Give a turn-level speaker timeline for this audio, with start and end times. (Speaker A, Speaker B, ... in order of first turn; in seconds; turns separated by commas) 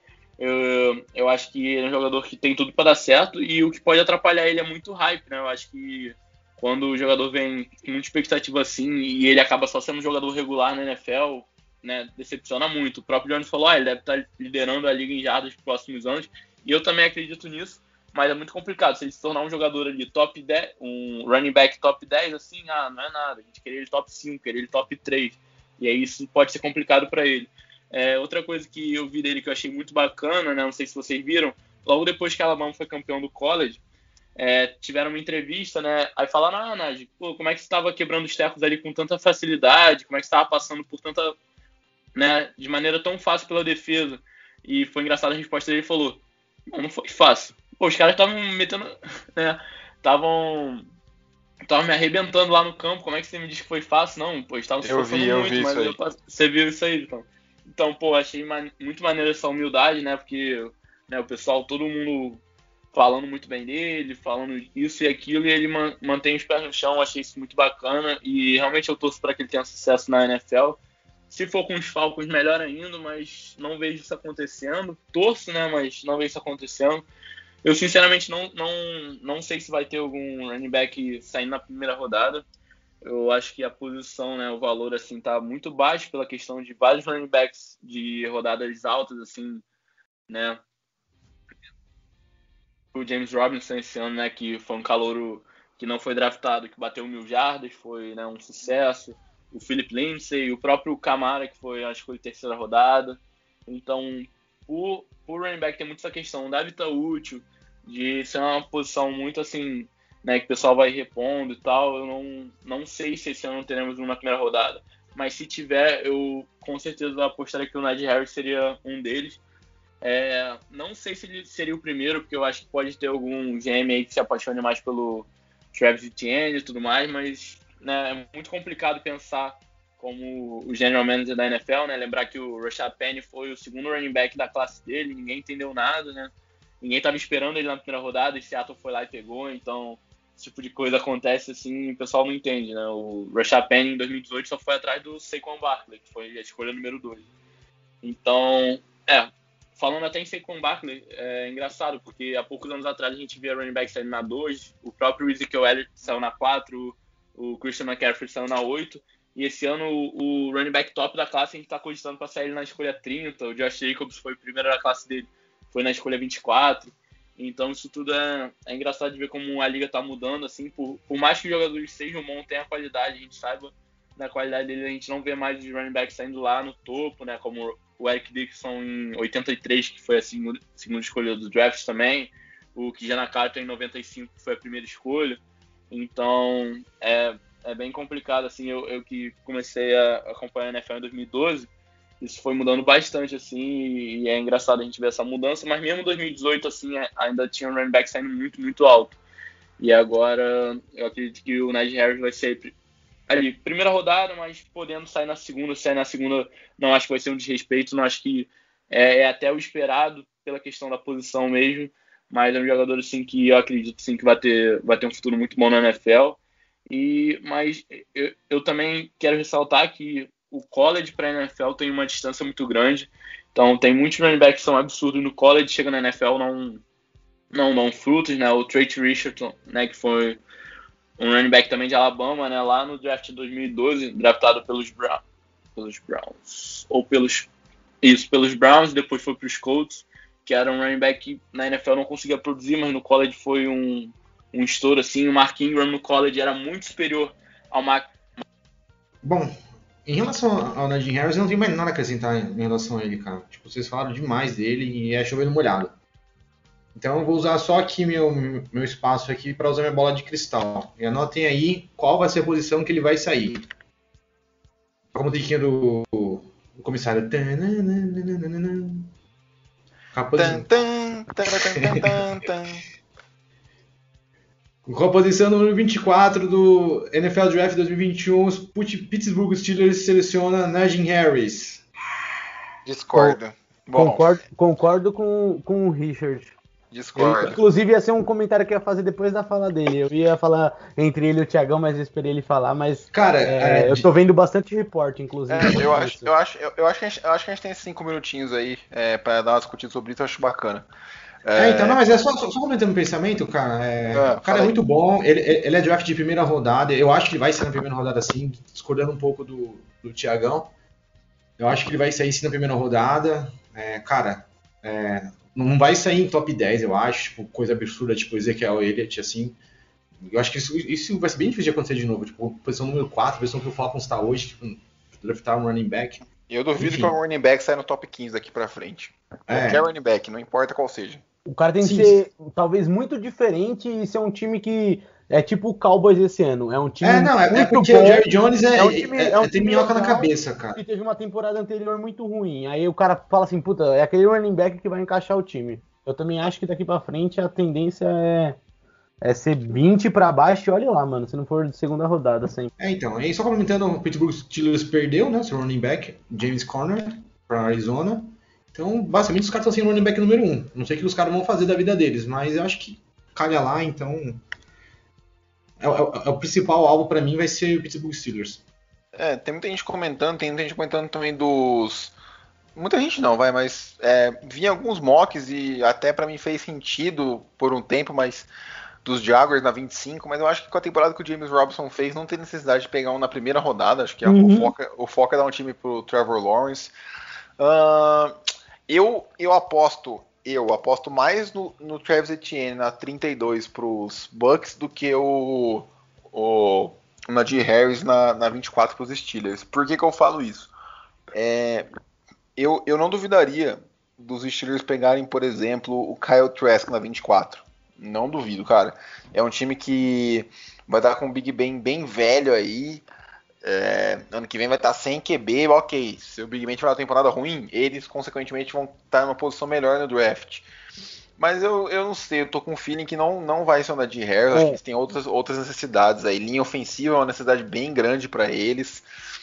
Speaker A: 0.4-33.8, Speaker A: 34.4-41.4, Speaker A: 42.1-50.9, Speaker A: 51.7-77.0, Speaker B: 54.8-56.0, Speaker A: 77.6-82.5, Speaker A: 83.0-89.6, Speaker A: 90.3-90.6, Speaker A: 92.9-119.4, Speaker A: 120.0-147.3, Speaker A: 148.0-199.2, Speaker A: 199.8-202.7, Speaker A: 203.3-226.8, Speaker A: 227.5-230.4, Speaker A: 231.2-235.2, Speaker A: 235.8-237.5, Speaker A: 238.0-248.1, Speaker C: 249.2-249.5, Speaker C: 250.1-255.9, Speaker C: 257.0-263.7, Speaker C: 265.1-269.1, Speaker C: 270.1-270.7, Speaker B: 270.4-272.8, Speaker C: 274.9-281.9, Speaker B: 282.9-284.4, Speaker D: 283.9-286.6, Speaker B: 286.9-287.6, Speaker D: 287.2-296.3, Speaker C: 293.1-294.1, Speaker B: 295.5-300.9, Speaker B: 301.4-302.0, Speaker C: 301.6-310.7, Speaker B: 304.1-304.8, Speaker C: 311.6-319.6, Speaker C: 320.3-326.2, Speaker B: 326.5-331.2, Speaker C: 326.8-327.1, Speaker C: 329.5-329.8, Speaker D: 331.5-348.6, Speaker C: 331.8-332.2, Speaker C: 337.0-340.8, Speaker D: 349.2-352.7, Speaker C: 352.8-364.4, Speaker C: 365.8-368.6, Speaker B: 369.1-372.2, Speaker B: 372.8-378.5, Speaker B: 379.0-386.9, Speaker D: 384.2-384.7, Speaker B: 387.6-388.4, Speaker B: 388.9-400.7, Speaker B: 401.3-401.9, Speaker B: 402.6-413.1, Speaker B: 413.6-420.7, Speaker B: 421.4-429.1, Speaker D: 424.5-424.8